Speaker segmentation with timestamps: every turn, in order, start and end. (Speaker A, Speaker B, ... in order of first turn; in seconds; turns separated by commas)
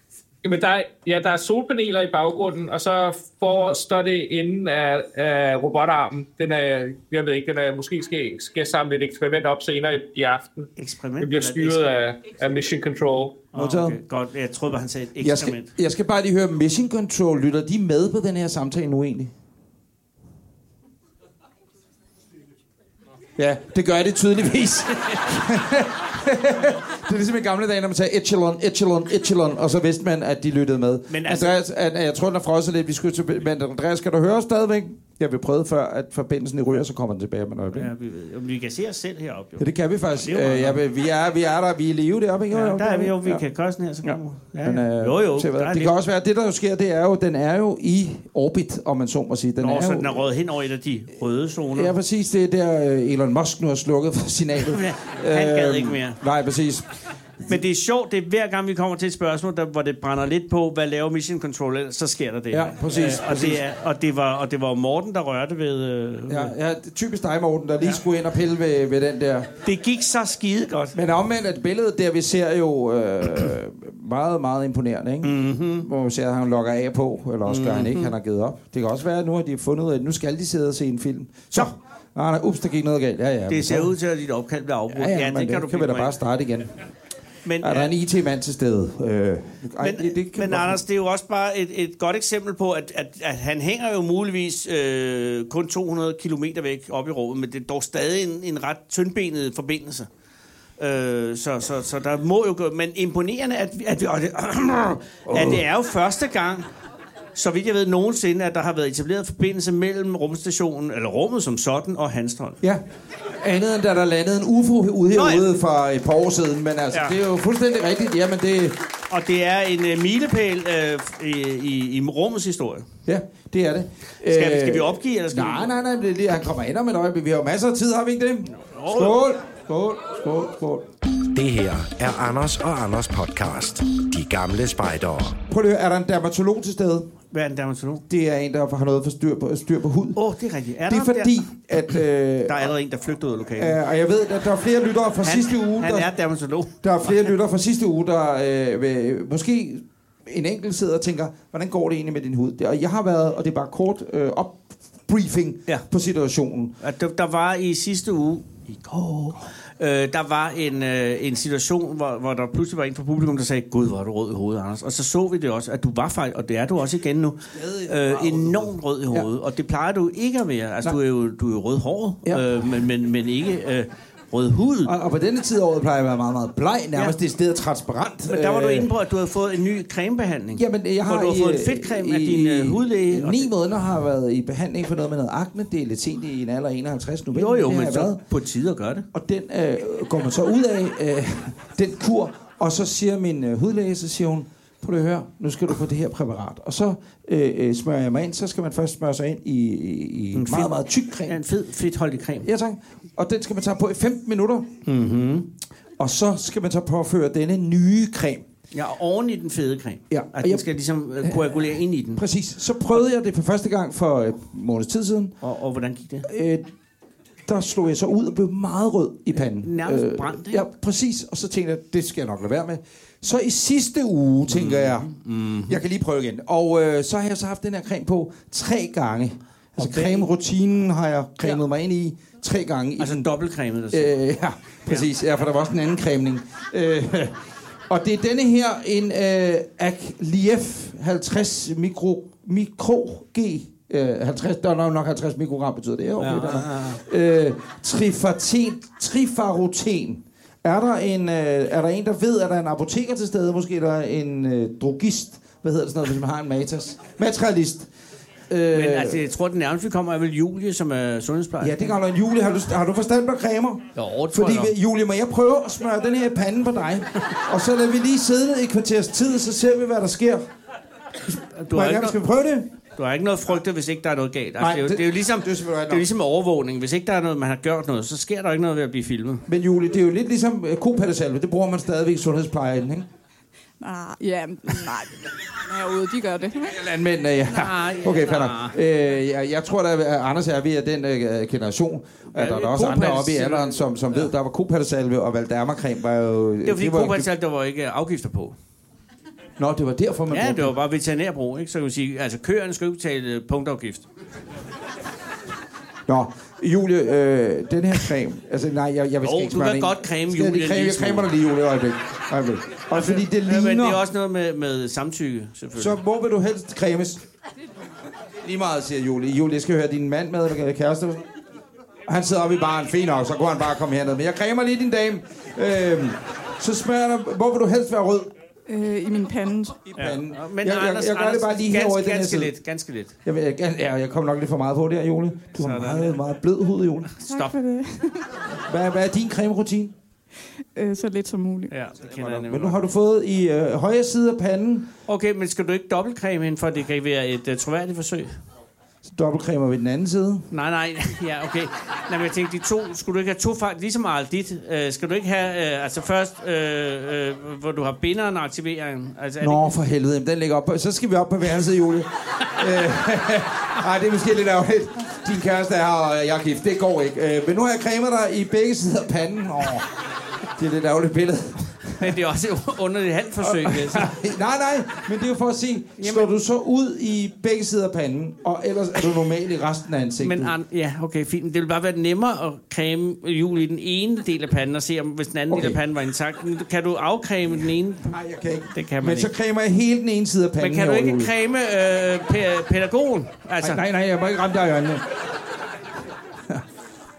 Speaker A: 0.4-10.7, Speaker B: 10.8-12.0, Speaker A: 11.2-13.5, Speaker B: 13.5-15.7, Speaker C: 13.5-14.0, Speaker C: 15.2-19.3, Speaker C: 23.4-37.9, Speaker B: 31.1-31.5, Speaker B: 37.7-40.8, Speaker C: 39.6-43.4, Speaker B: 42.5-46.0, Speaker C: 44.0-50.3, Speaker B: 49.6-51.9, Speaker C: 51.7-56.9, Speaker B: 54.6-56.2, Speaker B: 57.5-66.5, Speaker C: 62.5-63.6, Speaker C: 66.3-69.5, Speaker B: 69.6-71.0, Speaker C: 70.9-83.9, Speaker B: 75.2-75.9, Speaker B: 77.5-78.1, Speaker B: 83.5-86.2, Speaker C: 84.9-86.8, Speaker B: 87.5-87.9, Speaker C: 87.6-90.8, Speaker B: 89.8-100.1, Speaker B: 100.8-106.7, Speaker C: 105.3-105.6, Speaker B: 107.3-112.6, Speaker C: 113.4-118.8, Speaker B: 115.1-115.5, Speaker B: 119.1-122.9, Speaker C: 123.1-130.9, Speaker B: 124.3-125.7, Speaker B: 128.5-129.2, Speaker D: 131.3-135.4, Speaker C: 135.5-137.1, Speaker B: 137.3-138.0, Speaker C: 138.1-140.2, Speaker B: 140.2-141.4, Speaker C: 140.9-142.7, Speaker B: 142.5-143.8, Speaker C: 143.6-146.1, Speaker B: 145.2-147.3, Speaker C: 146.8-156.8, Speaker B: 156.8-174.9, Speaker C: 167.5-169.3, Speaker C: 174.8-178.9, Speaker B: 178.3-183.5, Speaker C: 180.6-188.2, Speaker B: 187.3-189.1, Speaker C: 189.1-201.4, Speaker B: 200.3-202.5, Speaker C: 202.4-204.7, Speaker B: 204.8-205.5, Speaker C: 206.0-208.5, Speaker B: 208.7-212.2, Speaker C: 210.1-210.7, Speaker C: 211.2-211.6, Speaker C: 212.2-215.3, Speaker B: 215.4-216.3, Speaker C: 216.2-216.7, Speaker C: 217.5-225.1, Speaker B: 219.4-220.7, Speaker B: 224.5-225.8, Speaker C: 225.7-233.3, Speaker B: 229.8-230.3, Speaker B: 233.0-234.1, Speaker C: 233.9-237.4, Speaker C: 237.9-257.9, Speaker B: 246.2-247.0, Speaker C: 258.5-259.2, Speaker B: 258.7-261.9, Speaker C: 261.6-270.5, Speaker B: 264.0-264.7, Speaker B: 271.5-272.2, Speaker C: 271.7-272.7, Speaker B: 273.0-279.4, Speaker C: 274.6-276.1, Speaker C: 279.5-283.1, Speaker E: 283.8-286.8, Speaker C: 286.7-297.3, Speaker B: 287.5-288.8, Speaker B: 292.3-294.3, Speaker B: 296.6-298.6, Speaker C: 299.6-300.8, Speaker B: 300.3-304.1, Speaker C: 306.1-314.1, Speaker B: 309.2-311.3, Speaker B: 312.9-316.0, Speaker C: 315.8-317.2, Speaker C: 318.4-321.2, Speaker C: 322.1-328.3, Speaker E: 328.7-329.8, Speaker C: 329.9-332.5, Speaker B: 330.0-333.1, Speaker C: 333.2-337.1, Speaker B: 335.6-336.2, Speaker B: 337.2-337.6, Speaker E: 337.3-338.3, Speaker C: 338.7-339.9, Speaker E: 340.8-341.7, Speaker B: 341.7-342.9, Speaker C: 342.1-344.9, Speaker B: 345.1-348.4, Speaker C: 349.0-350.5, Speaker B: 350.5-359.7, Speaker C: 359.4-369.9, Speaker C: 370.6-372.1, Speaker B: 372.0-374.1, Speaker C: 373.4-380.5, Speaker B: 376.0-376.3, Speaker B: 380.2-388.1, Speaker C: 385.5-385.8, Speaker C: 388.1-391.3, Speaker B: 388.7-389.3, Speaker B: 390.6-393.8, Speaker C: 393.6-395.1